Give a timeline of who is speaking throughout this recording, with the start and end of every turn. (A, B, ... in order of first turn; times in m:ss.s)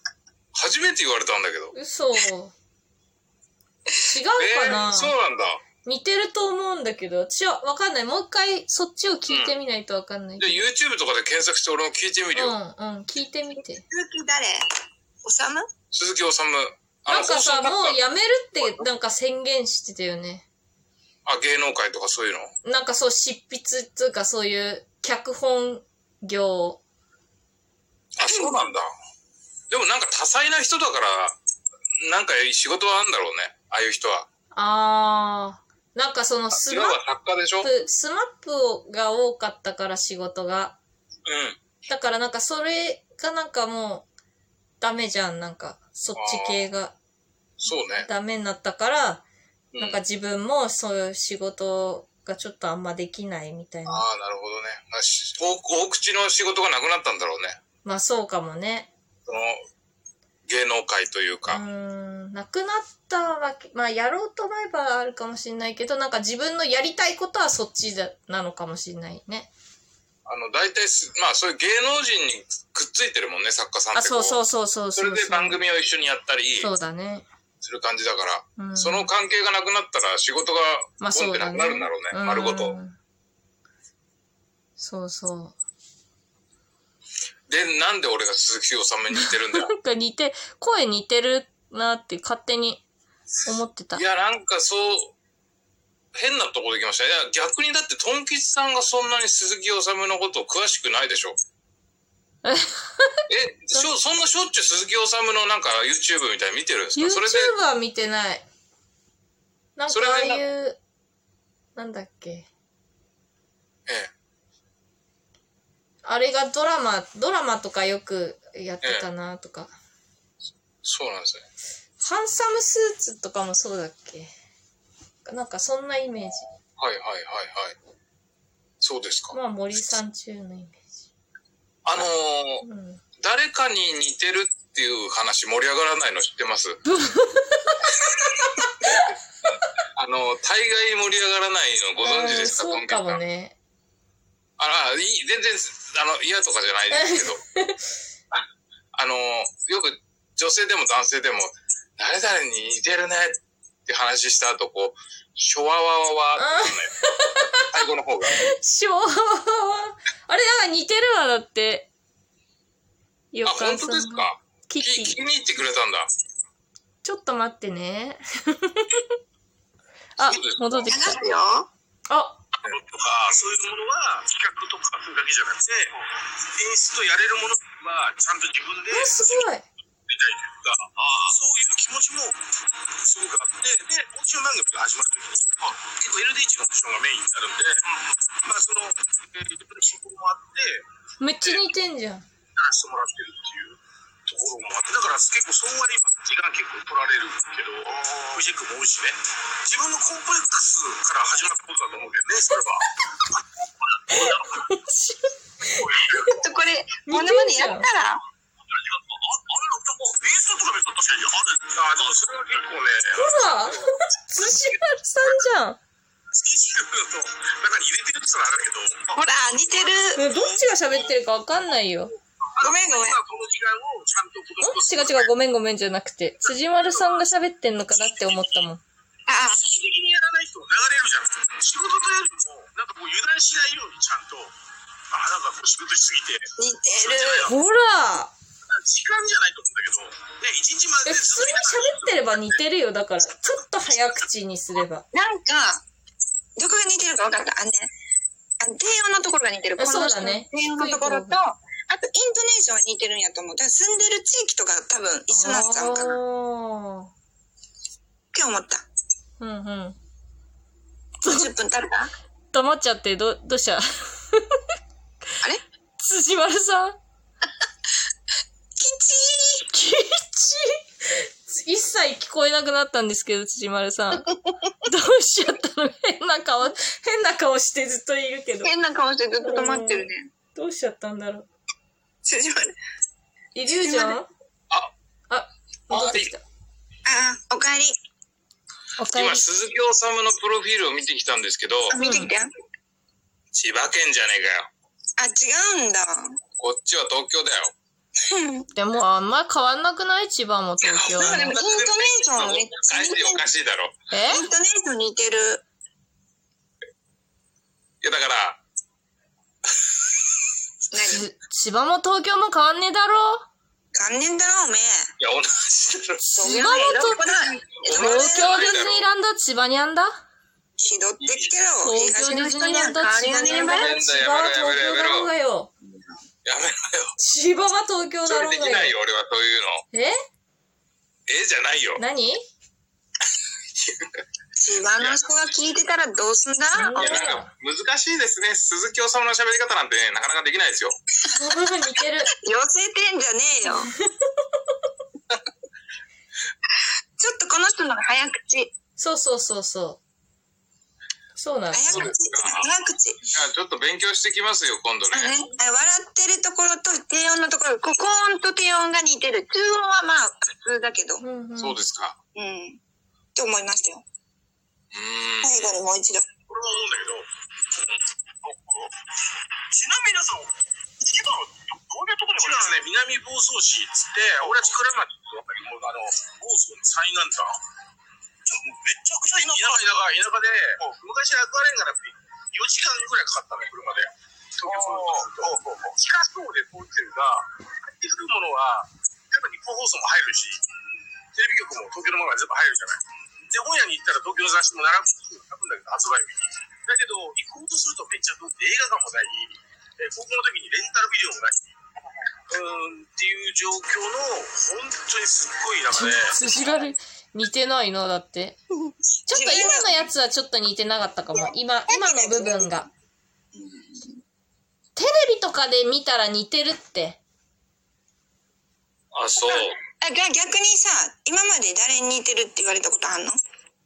0:00.5-0:01.7 A
0:01.7-0:02.5 B
0:04.0-0:05.1 B
0:04.4-0:05.6 A
0:05.8-0:10.7 B
0:09.3-0:09.6 A
0:10.4-0:12.6 A
0:12.3-0:13.8 B
0:13.9-0:14.6 C
0:15.2-0:15.7 C
0:15.9-0:18.0 A
0:17.1-0:20.5 B
0:21.2-0:22.5 A
0:22.6-0:26.8 B
0:28.2-0:28.9 A
0:29.7-0:31.4 A
0:32.0-0:34.3 A
0:34.5-0:37.0 B
0:36.5-0:37.7 A
0:37.6-0:40.8 B
0:41.2-0:41.6 A
0:41.9-0:44.1 B
0:44.8-0:47.0 B
0:46.2-0:46.7 A
0:47.6-0:48.1 A
0:48.0-0:49.2 B
0:49.7-0:50.0 A
0:49.8-0:54.1 B
0:53.9-0:57.6 A
0:57.8-0:58.9 B
0:59.3-0:59.6 A
1:00.5-1:01.6 A
1:01.5-1:09.5 B
1:10.2-1:14.4 A
1:13.9-1:15.6 B
1:15.0-1:16.7 A
1:16.6-1:17.2 B
1:17.6-1:22.8 A
1:18.6-1:19.1 B
1:21.0-1:23.0 B
1:24.8-1:25.6 B
1:27.5-1:29.7 A
1:29.7-1:32.8 B
1:33.4-1:34.0 B
1:33.9-1:35.1 A
1:36.2-1:41.4 A
1:42.4-1:43.2 B
1:43.3-1:47.5 A
1:47.0-1:48.5 B
1:49.8-1:50.8 B
1:49.9-1:50.4 A
1:51.8-1:52.5 B
1:56.0-1:59.7 B
2:00.8-2:01.4 A
2:02.0-2:04.3 B
2:05.2-2:06.5 B
2:06.8-2:07.8 A
2:08.8-2:09.4 A
2:09.3-2:10.9 B
2:11.8-2:12.6 A
2:12.6-2:13.0 B
2:13.2-2:16.8 A
2:16.9-2:17.8 B
2:20.0-2:23.2 A
2:22.0-2:23.6 B
2:24.6-2:27.4 A
2:26.9-2:27.8 B
2:28.3-2:36.9 A
2:36.4-2:37.7 B
2:37.6-2:38.5 A
2:38.3-2:41.9 B
2:43.3-2:45.2 B
2:43.4-2:46.1 A
2:47.0-2:49.1 B
2:50.2-2:51.2 B
2:50.2-2:51.3 A
2:50.8-2:51.7 C
2:52.1-2:52.4 B
2:52.7-2:55.9 D
2:56.5-2:59.5 D
2:58.9-2:59.7 B
3:00.1-3:02.4 D
3:03.0-3:10.9 D
3:11.2-3:12.2 B
3:12.6-3:23.4 D
3:24.1-3:24.6 D
3:24.1-3:25.9 B
3:25.7-3:26.3 D
3:26.2-3:28.2 C
3:27.1-3:27.9 B
3:28.9-3:33.4 D
3:33.1-3:35.8 B
3:36.3-3:39.2 D
3:39.1-3:40.2 C
3:39.7-3:40.9 D
3:40.2-3:42.1 B
3:42.5-3:45.3 D
3:42.6-3:43.2 C
3:44.6-3:48.8 B
3:46.7-3:47.2 D
3:49.3-3:49.6 C
3:49.6-3:54.6 D
3:55.1-3:57.5 D
3:56.6-3:57.5 C
3:57.5-3:58.3 B
3:58.7-4:02.5 D
4:01.0-4:05.1 B
4:05.1-4:05.8 C
4:06.6-4:07.9 C
4:08.6-4:16.2 C
4:09.8-4:11.4 B
4:15.3-4:17.1 B
4:18.3-4:18.8 C
4:19.4-4:20.0 B
4:21.2-4:21.5 B
4:21.3-4:22.1 C
4:22.5-4:24.6 B
4:26.0-4:27.0 B
4:28.8-4:29.7 C
4:29.7-4:34.3 B
4:34.8-4:38.7 B
4:38.6-4:40.3 C
4:39.4-4:41.5 B
4:42.2-4:42.7 C
4:43.5-4:44.3 B
4:43.7-4:44.2 C
4:45.3-4:46.4 B
4:45.9-4:46.3 A
4:47.1-4:48.0 C
4:49.0-4:49.4 B
4:49.1-4:52.0 A
4:51.9-4:52.5 C
4:52.0-4:52.3 B
4:53.5-4:54.7 A
4:55.2-4:56.3 C
4:56.6-4:57.7 A
4:58.3-4:58.7 C
4:58.8-5:01.6 B
5:00.9-5:04.0 A
5:01.2-5:03.5 C
5:04.1-5:04.4 B
5:04.3-5:05.6 C
5:08.0-5:08.6 A
5:10.9-5:11.2 C
5:11.1-5:13.5 B
5:13.9-5:15.1 C
5:15.2-5:16.6 A
5:16.3-5:18.7 C
5:16.4-5:20.2 B
5:17.8-5:19.0 A
5:20.8-5:24.0 C
5:21.2-5:21.5 A
5:21.8-5:25.7 B
5:23.4-5:25.3 A
5:26.4-5:27.1 A
5:27.2-5:28.9 B
5:28.2-5:29.8 A
5:31.3-5:32.0 A
5:32.0-5:32.4 B
5:34.6-5:37.4 C
5:35.0-5:35.3 A
5:36.8-5:37.5 B
5:36.9-5:40.9 A
5:41.3-5:42.3 B
5:42.4-5:43.9 C
5:47.2-5:48.7 C
5:49.0-5:50.0 B
5:51.4-5:52.1 B
5:51.7-5:53.2 C
5:51.9-5:52.6 A
5:53.3-5:55.3 A
5:55.1-6:01.2 C
6:01.2-6:01.8 B
6:01.6-6:02.2 A
6:02.4-6:02.8 C
6:03.4-6:04.0 C
6:04.9-6:05.8 A
6:05.4-6:06.2 C
6:06.5-6:07.3 D
6:08.4-6:08.9 D
6:09.7-6:10.5 D
6:11.1-6:17.6 D
6:18.5-6:30.6 D
6:31.3-6:41.6 D
6:42.5-6:46.4 D
6:45.9-6:48.6 B
6:48.8-6:50.1 C
6:49.3-6:52.9 B
6:51.3-6:52.7 C
6:53.6-6:54.2 C
6:55.0-6:57.2 B
6:59.1-6:59.8 A
6:59.4-7:03.4 C